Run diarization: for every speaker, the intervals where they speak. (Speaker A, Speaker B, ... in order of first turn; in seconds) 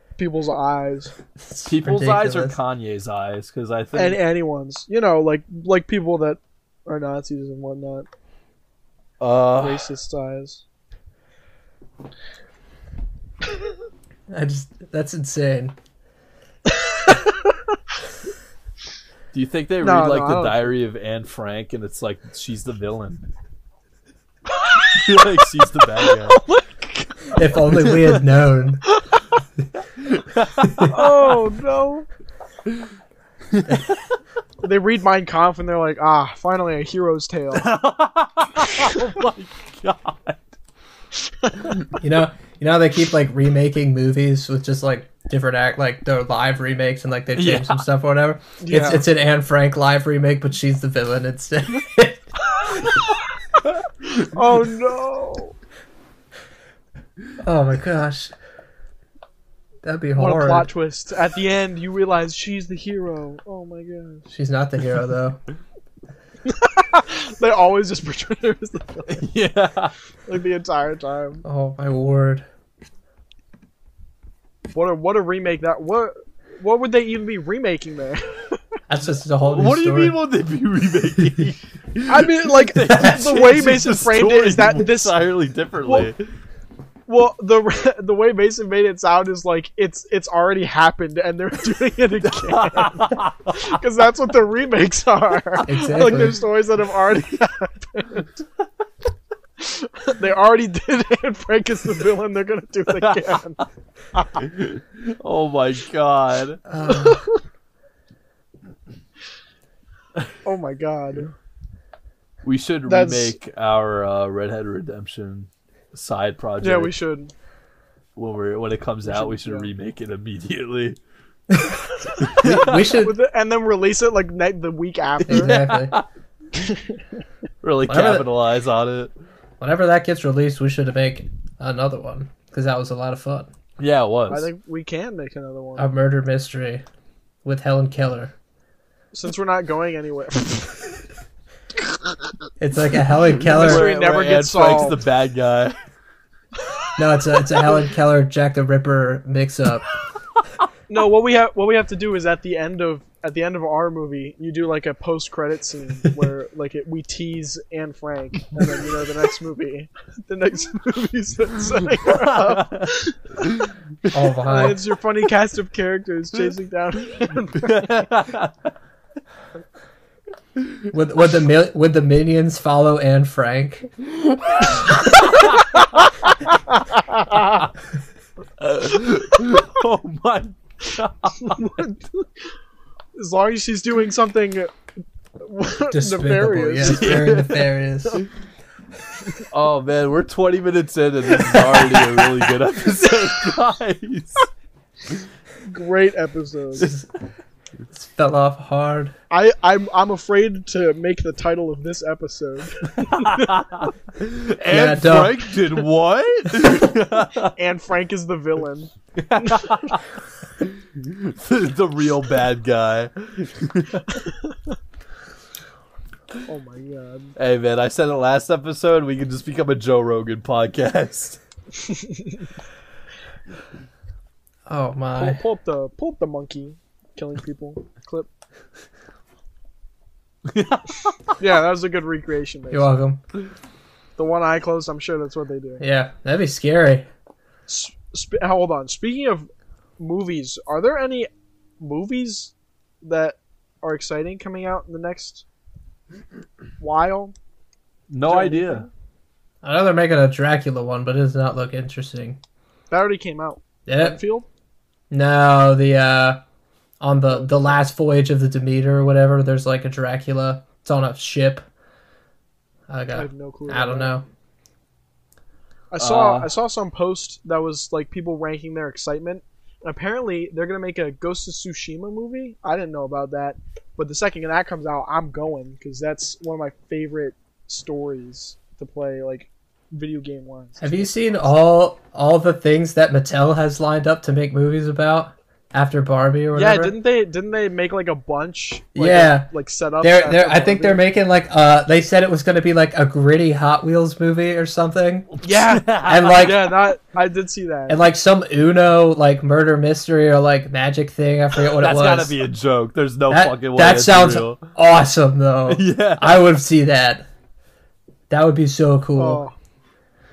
Speaker A: 0.2-1.1, 3.9-8.1, 9.6-10.6, 16.8-17.5, 19.8-20.7, 24.5-25.3, 26.0-27.4, 30.9-32.1, 34.6-37.7, 41.4-41.7, 48.6-49.0, 52.7-53.2, 54.1-55.5, 60.2-64.2, 66.5-69.2, 70.3-71.4, 74.7-78.6, 82.1-85.1, 85.8-86.1, 87.1-98.3, 99.6-103.6, 104.1-104.4, 106.8-107.4, 110.4-111.3, 112.9-113.4, 116.6-117.3, 119.0-119.7, 122.1-125.6, 126.5-127.0, 134.3-135.9, 139.1-140.8, 143.5-145.0, 150.9-163.2, 164.4-168.1, 176.5-177.6, 181.4-182.4, 183.2-184.7, 185.4-187.2, 195.7-196.9, 199.3-203.6, 207.6-209.7, 214.2-214.6, 216.4-217.3, 221.8-222.4, 225.2-228.3, 231.4-232.9, 234.2-235.8, 237.7-241.3, 241.8-245.4, 246.8-247.3, 248.2-248.9, 252.9-254.4, 257.3-257.8, 263.1-264.1, 265.9-281.6, 286.5-291.0, 295.4-298.0, 309.1-309.5
Speaker B: 1.4-2.6, 14.3-15.8, 27.4-28.8, 30.6-30.9, 42.0-52.2, 57.4-58.3, 59.8-60.7, 64.3-65.4, 71.4-72.5, 78.9-80.2, 82.9-83.2, 95.7-96.4, 106.7-107.2, 121.5-121.8, 122.4-123.1, 125.3-125.9, 127.9-128.3, 129.6-133.5, 135.8-136.8, 137.4-138.3, 142.6-143.9, 147.0-149.9, 164.1-164.8, 170.9-173.9, 185.9-188.2, 191.6-191.8, 196.8-197.1, 197.9-199.1, 204.7-205.4, 224.7-225.4, 232.7-233.2, 235.8-237.1, 249.6-252.4, 253.9-254.2, 255.1-256.4, 257.0-261.6, 262.9-264.2, 280.8-286.9, 288.9-289.5, 290.0-295.3, 295.9-296.7, 297.9-302.4, 303.3-307.3, 308.3-309.4
Speaker C: 1.7-4.2, 9.2-9.9, 19.3-23.2, 24.9-26.4, 27.8-28.2, 29.9-31.1, 33.5-33.9, 37.5-40.4, 47.4-47.9, 69.1-69.9, 79.4-86.2, 92.2-93.7, 104.4-106.6, 112.4-116.9, 118.2-121.0, 122.2-123.0, 125.3-126.0, 127.6-129.1, 133.8-134.5, 143.4-145.8, 162.1-162.9, 163.4-164.1, 167.6-168.5, 170.6-170.8, 174.4-175.8, 178.6-181.7, 186.8-188.3, 189.5-194.5, 203.0-207.5, 209.2-210.0, 210.6-214.2, 217.4-221.4, 230.5-231.3, 248.1-248.9, 266.0-266.5, 295.4-296.7, 301.8-304.7, 305.7-306.4